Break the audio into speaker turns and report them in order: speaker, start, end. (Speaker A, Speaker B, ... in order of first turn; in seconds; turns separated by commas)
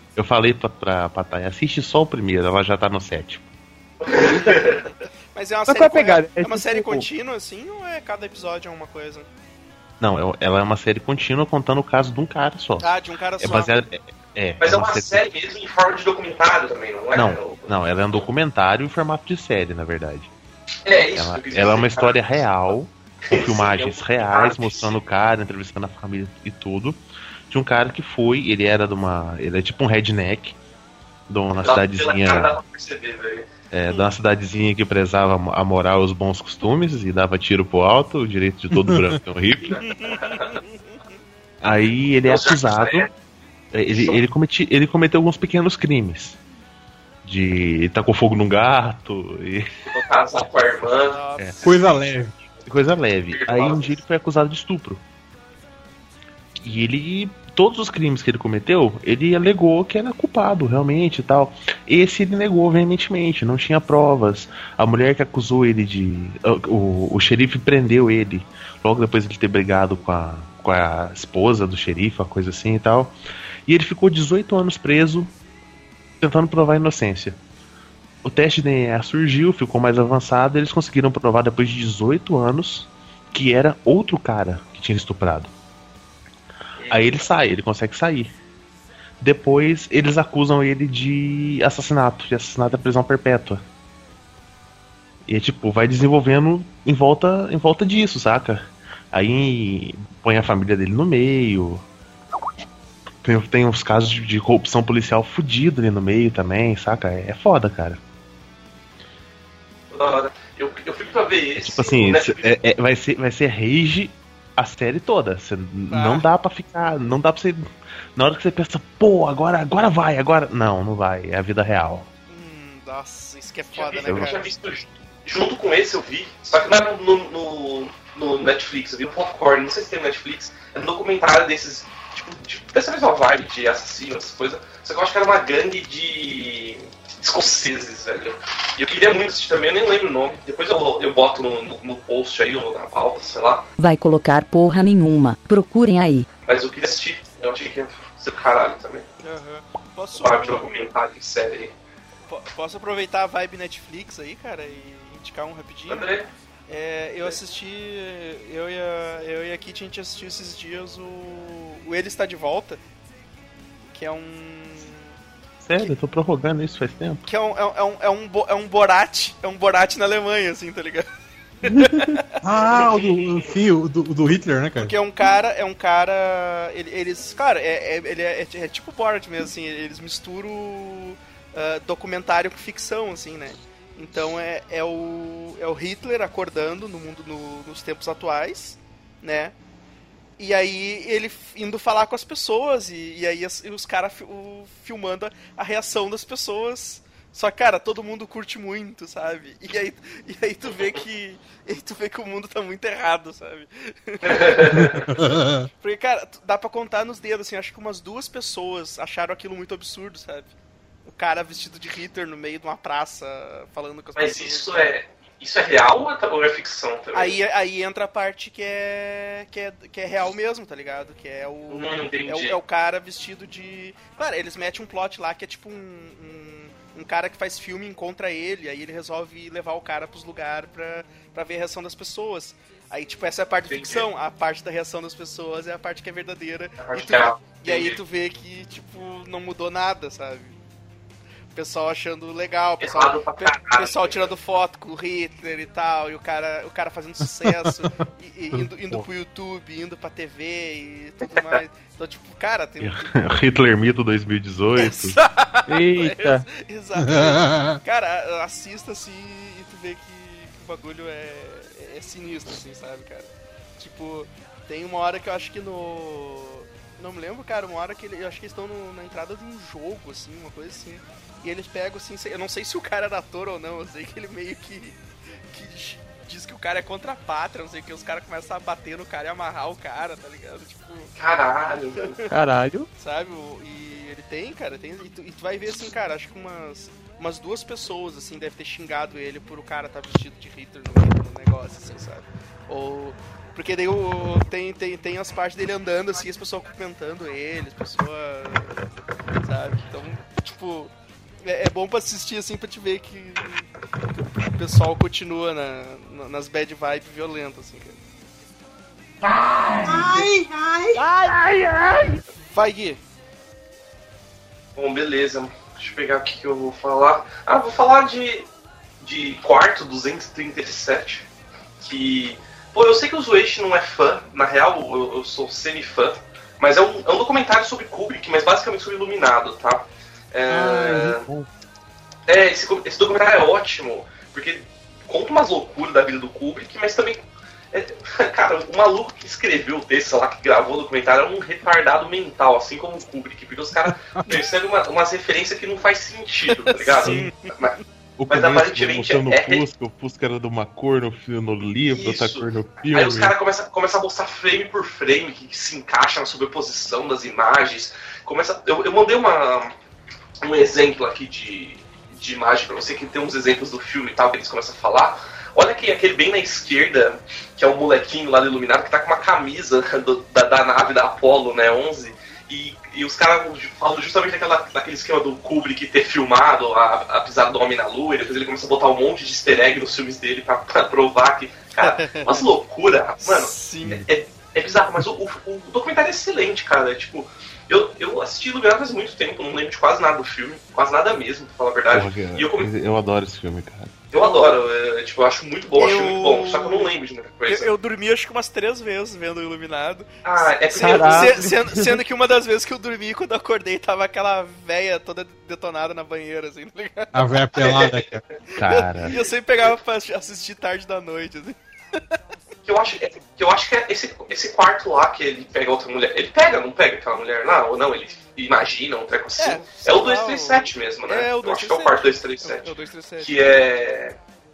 Speaker A: 0.2-3.4, Speaker B: 4.0-4.8, Speaker C: 4.2-4.6, Speaker D: 4.5-9.3, Speaker C: 5.7-7.1, Speaker A: 10.0-15.2, Speaker D: 12.8-13.7, Speaker B: 14.6-18.2, Speaker A: 17.1-20.3, Speaker B: 20.9-22.5, Speaker A: 21.0-30.6, Speaker B: 23.3-25.0, Speaker A: 31.3-32.5, Speaker B: 31.6-33.5, Speaker A: 33.7-39.8, Speaker E: 38.7-39.2, Speaker B: 39.6-40.6, Speaker D: 39.8-41.0, Speaker A: 41.6-43.1, Speaker B: 42.2-43.1, Speaker A: 43.7-46.4, Speaker B: 43.9-44.2, Speaker A: 47.2-49.9, Speaker B: 49.9-51.2, Speaker D: 50.9-52.1, Speaker E: 51.6-52.3, Speaker A: 52.7-55.0, Speaker B: 53.3-54.0, Speaker A: 56.6-75.3, Speaker A: 76.2-77.4, Speaker A: 78.2-85.5, Speaker B: 86.8-87.3, Speaker A: 86.9-88.3, Speaker A: 89.2-93.6, Speaker A: 95.3-101.8, Speaker A: 103.2-108.0, Speaker B: 109.9-112.6, Speaker A: 111.6-122.1, Speaker D: 115.9-116.3, Speaker D: 122.3-124.5, Speaker B: 123.7-143.7, Speaker A: 124.0-124.4, Speaker F: 143.8-146.2, Speaker B: 146.5-149.1, Speaker D: 149.2-150.8, Speaker B: 150.2-151.7, Speaker D: 152.3-156.1, Speaker B: 155.9-156.3, Speaker D: 156.7-162.8, Speaker D: 163.9-165.1, Speaker A: 165.6-167.2, Speaker D: 167.3-171.1, Speaker D: 171.6-172.2, Speaker E: 172.4-174.9, Speaker B: 172.6-173.6, Speaker D: 174.8-189.6, Speaker D: 190.4-205.1, Speaker B: 204.2-205.0, Speaker E: 204.7-205.7, Speaker D: 205.8-210.5, Speaker D: 211.1-214.9, Speaker B: 214.2-217.4, Speaker D: 217.1-240.5, Speaker B: 221.7-222.6, Speaker B: 233.7-234.0, Speaker B: 236.8-238.0, Speaker D: 241.5-253.2, Speaker B: 242.8-244.3, Speaker E: 247.4-248.0, Speaker A: 248.6-249.0, Speaker A: 252.8-255.2, Speaker D: 254.8-275.0, Speaker C: 255.7-256.5, Speaker E: 257.0-257.8, Speaker D: 275.5-281.1, Speaker B: 281.2-282.2, Speaker C: 282.3-282.9, Speaker D: 283.0-298.8, Speaker D: 299.4-300.9, Speaker D: 301.4-303.7, Speaker D: 304.4-308.0, Speaker E: 309.8-311.0, Speaker D: 310.9-313.0, Speaker B: 314.8-318.5, Speaker B: 319.0-321.3, Speaker B: 321.8-331.3, Speaker A: 330.5-331.5, Speaker E: 330.8-331.3, Speaker B: 332.3-347.8, Speaker E: 343.9-344.4, Speaker D: 346.5-347.8, Speaker A: 348.2-353.3, Speaker B: 348.3-349.7, Speaker B: 351.9-359.8, Speaker B: 360.4-392.7, Speaker D: 381.8-382.5, Speaker D: 383.2-384.0, Speaker A: 391.9-394.0, Speaker B: 394.1-397.7, Speaker D: 394.1-394.6, Speaker D: 395.8-396.9, Speaker D: 397.5-407.7, Speaker B: 400.2-401.4, Speaker C: 400.8-402.0, Speaker A: 400.8-401.4, Speaker E: 407.1-408.2, Speaker B: 407.6-408.1, Speaker D: 408.6-411.6, Speaker A: 408.6-409.2, Speaker B: 412.7-424.1, Speaker D: 419.4-423.6